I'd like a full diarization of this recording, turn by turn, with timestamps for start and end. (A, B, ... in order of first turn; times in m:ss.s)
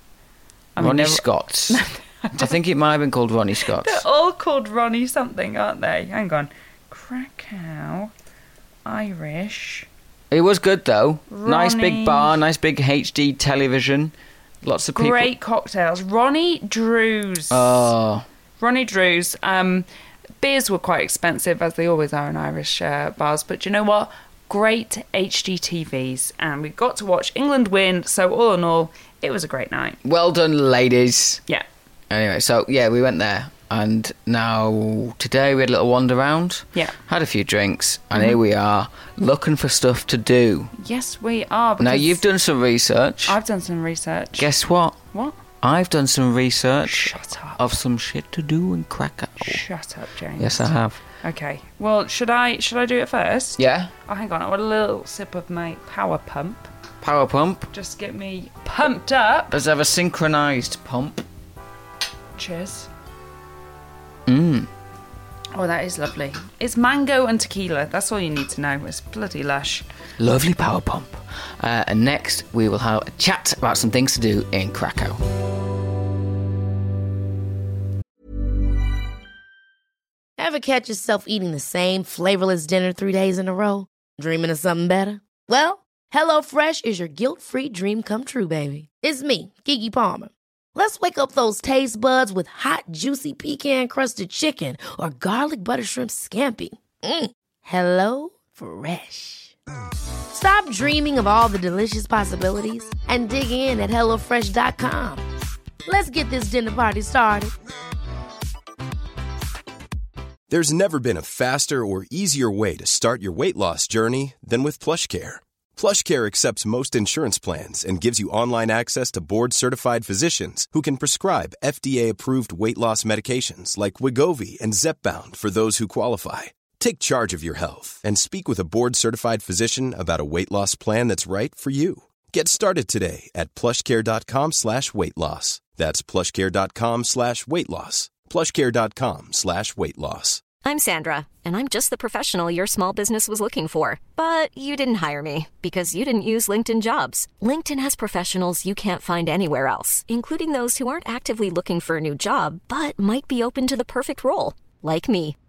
0:00.8-0:02.5 A
0:00.8-0:01.8 B
0:02.3-0:04.0 B
0:03.7-0:08.1 A
0:08.8-0:09.9 A
0:10.3-0:15.3 B
0:11.3-0:12.4 A
0:14.9-0:17.9 A
0:17.5-0:18.2 B
0:18.6-0:19.8 A
0:20.4-0:30.0 A
0:30.0-0:31.4 B
0:32.1-0:40.7 B
0:40.8-0:42.2 A
0:41.8-0:43.4 B
0:43.2-0:44.5 A
0:44.4-0:45.0 B
0:45.6-0:49.6 B
0:46.8-0:47.6 A
0:49.4-0:50.7 A
0:50.4-0:51.0 B
0:51.2-0:56.7 A
0:53.6-0:53.9 B
0:57.0-0:57.7 B
0:57.7-0:59.6 A
0:59.5-1:01.2 B
1:02.4-1:02.9 A
1:04.3-1:04.7 B
1:05.5-1:09.8 A
1:10.2-1:15.2 B
1:20.4-1:39.5 C
1:40.3-1:45.2 C
1:45.8-1:47.5 C
1:50.5-2:20.4 D
2:20.6-2:35.4 E